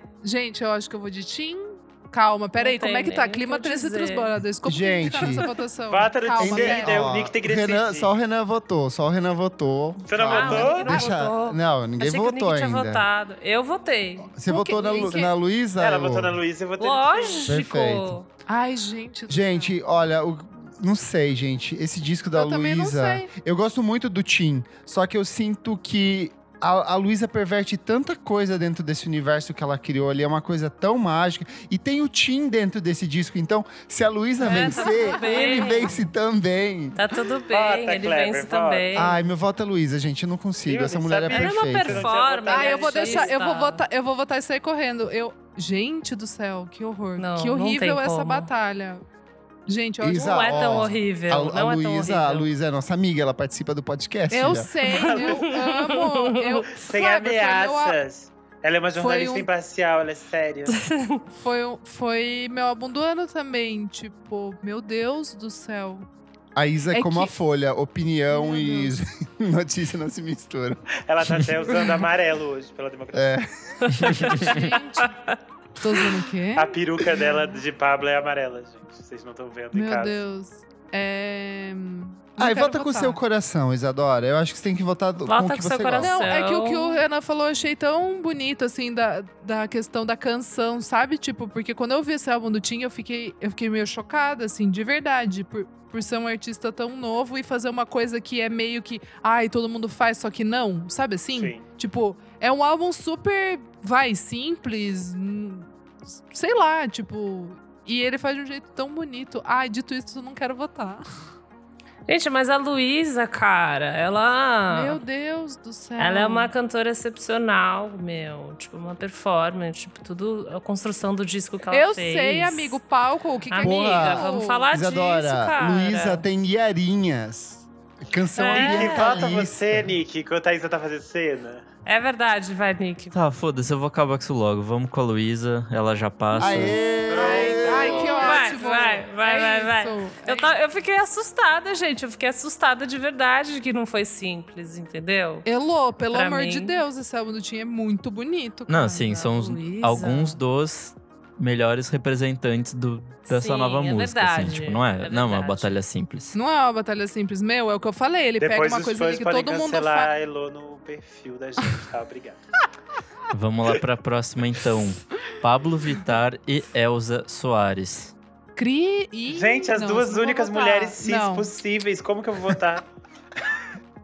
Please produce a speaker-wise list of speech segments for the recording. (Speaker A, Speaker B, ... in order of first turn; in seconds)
Speaker A: 0.2-7.1, 14.5-15.3, 18.5-19.8, 22.4-23.3, 34.4-36.0, 42.5-49.0, 49.7-50.9, 54.3-58.0, 59.0-59.5, 61.4-66.1, 66.9-67.3, 68.3-69.0, 74.1-75.2, 75.8-76.8, 79.7-83.2, 86.0-105.7, 106.3-111.0, 114.7-116.5, 121.7-124.7, 136.5-140.5, 145.5-149.3, 156.3-160.1, 168.6-171.5
Speaker B: 2.6-4.3, 10.3-14.4, 15.0-15.3, 16.8-18.3, 34.4-36.0, 37.0-39.2, 41.3-43.8, 47.2-48.5, 50.1-52.5, 55.0-56.6, 60.7-61.2, 73.9-75.4, 85.3-87.0, 112.1-115.0, 116.0-122.8, 123.5-126.2, 128.4-129.0, 131.9-133.2, 138.1-145.5, 146.1-146.8, 149.2-150.4, 153.3-155.8
Speaker C: 4.7-5.5, 6.4-13.1, 14.3-16.4, 17.5-18.2, 19.3-37.0, 38.9-42.1, 50.0-54.7, 66.5-70.8, 73.1-74.4, 82.4-86.2, 123.6-130.0, 136.4-138.2
Speaker D: 5.9-8.1, 10.1-11.0, 15.8-17.5, 37.5-39.1, 40.7-43.3, 54.9-55.6, 56.7-60.8, 71.1-73.4, 76.5-80.2, 101.3-101.6, 128.5-131.7, 137.1-138.9, 158.4-162.4, 169.3-172.9
Speaker E: 133.1-136.8, 148.7-156.3, 163.3-168.1